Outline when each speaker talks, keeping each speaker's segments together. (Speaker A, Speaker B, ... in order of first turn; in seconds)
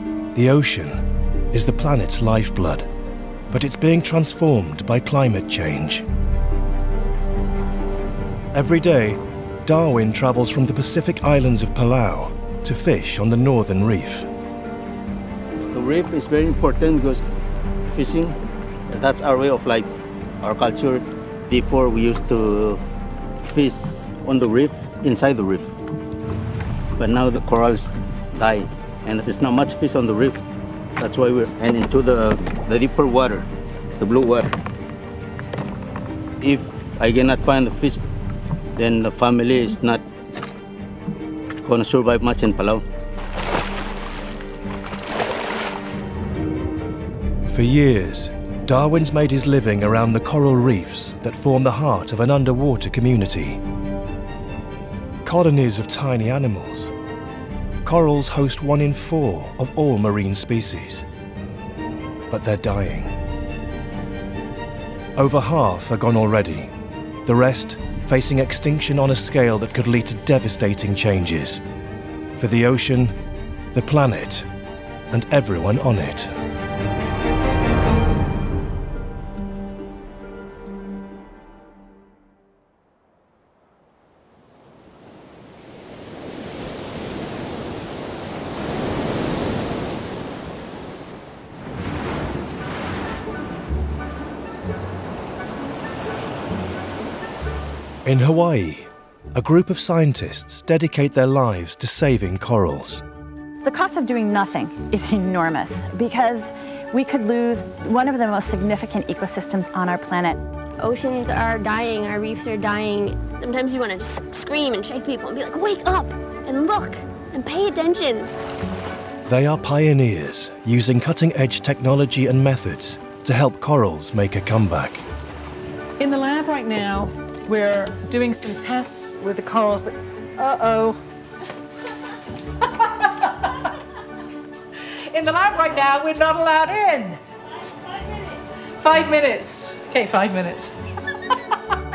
Speaker A: 0.3-2.9, 3.5-6.0, 8.5-14.3, 47.5-53.6, 55.2-56.9, 57.8-61.0, 62.3-63.1, 65.2-66.7, 67.2-71.6, 72.4-73.2, 73.7-74.5, 75.1-76.3, 98.0-103.0, 119.3-125.0
Speaker B: 15.7-17.2, 17.9-18.4, 18.9-19.9, 20.4-22.8, 23.4-25.7, 27.0-30.4, 31.0-33.5, 34.0-34.5, 36.4-38.0, 38.8-40.0, 41.6-42.8
Speaker C: 103.6-110.4
Speaker D: 110.8-118.3
Speaker E: 126.0-131.0, 135.1-137.2, 138.8-140.7